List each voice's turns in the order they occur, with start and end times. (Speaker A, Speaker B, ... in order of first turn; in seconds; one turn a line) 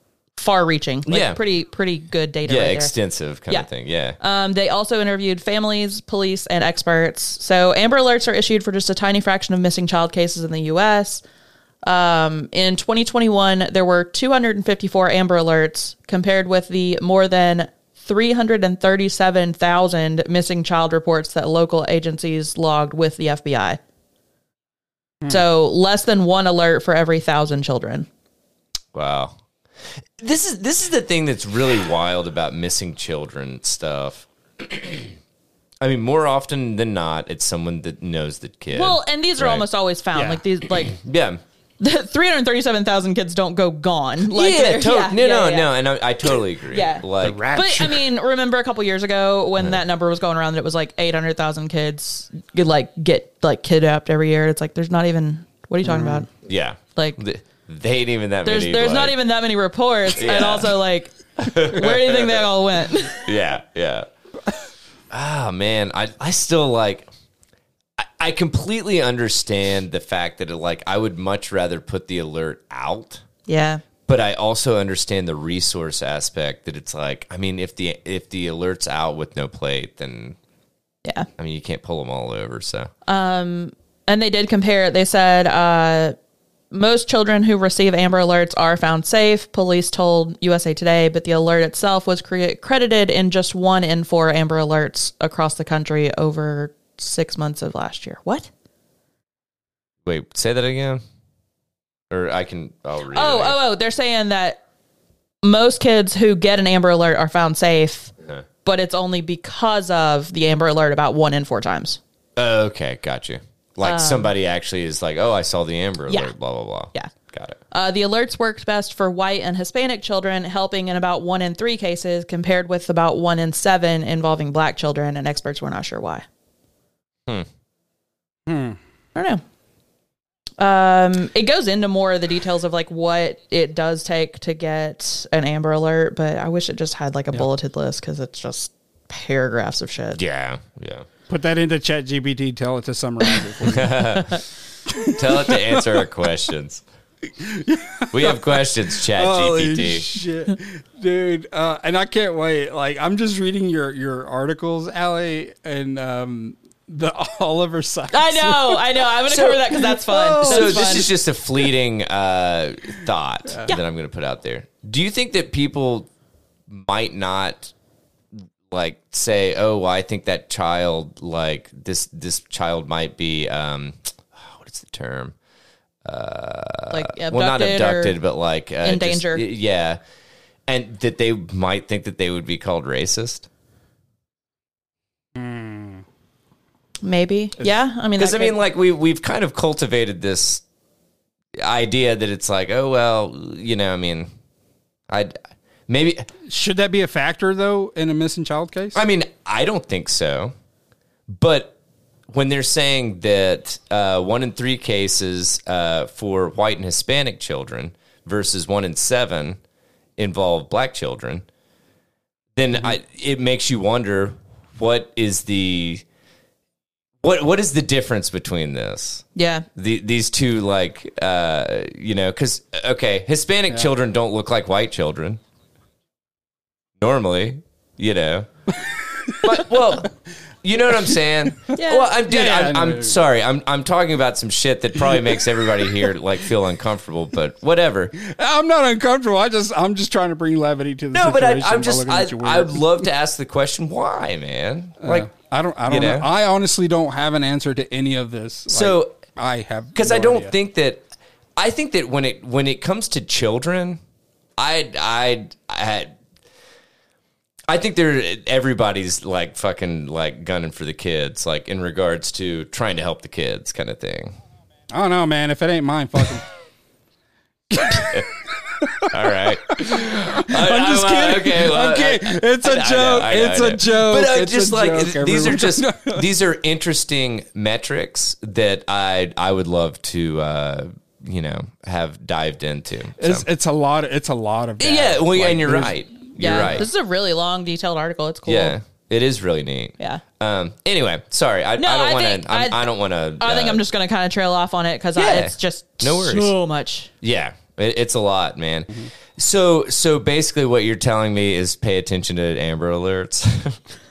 Speaker A: 0.4-2.9
Speaker B: 1.1-1.4
Speaker B: 2.5-4.2
Speaker A: 4.2-11.2
Speaker A: 11.8-23.8
Speaker A: 25.3-28.1
Speaker B: 28.9-29.4
Speaker B: 30.2-35.1
Speaker B: 35.8-39.6
Speaker A: 38.7-41.0
Speaker C: 40.1-40.4
Speaker B: 40.9-41.4
Speaker A: 41.8-45.7
Speaker B: 44.3-47.4
Speaker A: 46.7-56.3
Speaker C: 47.2-48.0
Speaker C: 55.8-56.2
Speaker B: 56.4-59.1
Speaker A: 58.4-63.3
Speaker B: 60.2-60.8
Speaker B: 61.4-62.4
Speaker B: 63.1-64.1
Speaker B: 65.1-67.1
Speaker B: 68.0-73.2
Speaker A: 73.5-73.8
Speaker B: 74.1-80.3
Speaker B: 81.4-82.9
Speaker A: 83.0-86.2
Speaker A: 86.7-98.5
Speaker B: 100.0-101.0
Speaker B: 102.1-103.6
Speaker A: 103.1-104.6
Speaker A: 105.4-108.1
Speaker A: 108.6-112.0
Speaker B: 112.3-117.6
Speaker A: 113.8-114.3
Speaker A: 117.7-126.2
Speaker C: 128.5-128.8
Speaker A: 129.1-129.4
Speaker A: 130.6-140.2
Speaker B: 140.1-141.1
Speaker C: 141.3-144.1
Speaker B: 143.6-144.4
Speaker C: 144.9-146.0
Speaker B: 145.1-146.8
Speaker C: 147.4-159.1
Speaker B: 148.1-150.1
Speaker A: 158.1-161.1
Speaker B: 159.3-159.6
Speaker C: 159.8-161.1
Speaker B: 160.4-166.1
Speaker B: 166.7-167.7
Speaker B: 168.7-175.3
Speaker B: 176.0-180.0
Speaker A: 176.9-178.2
Speaker A: 178.8-179.4
Speaker B: 180.7-183.5
Speaker C: 185.3-186.0
Speaker A: 187.0-188.6
Speaker B: 188.2-190.6
Speaker B: 191.6-194.3
Speaker B: 195.1-195.4
Speaker B: 195.9-196.3
Speaker C: 196.4-199.0
Speaker B: 198.9-200.5
Speaker B: 201.3-201.7
Speaker B: 202.3-209.6
Speaker B: 210.2-211.4
Speaker B: 212.6-216.0
Speaker B: 217.2-219.2
Speaker A: 219.3-219.7
Speaker B: 219.8-225.4
Speaker B: 227.0-228.5
Speaker C: 228.9-229.6
Speaker B: 229.4-230.1
Speaker B: 230.6-238.1
Speaker A: 231.7-232.1
Speaker C: 232.3-233.2
Speaker C: 238.2-243.1
Speaker B: 241.1-245.3
Speaker C: 245.0-250.5
Speaker B: 245.9-246.3
Speaker B: 248.7-249.2
Speaker B: 249.9-251.0
Speaker B: 251.6-254.0
Speaker B: 254.6-256.1
Speaker B: 257.7-264.3
Speaker C: 264.9-266.4
Speaker C: 267.7-276.2
Speaker B: 267.9-268.3
Speaker B: 269.1-283.4
Speaker C: 283.2-285.9
Speaker B: 284.8-286.9
Speaker A: 286.4-288.8
Speaker B: 288.4-293.8
Speaker A: 291.8-297.1
Speaker B: 295.1-296.5
Speaker B: 297.2-303.8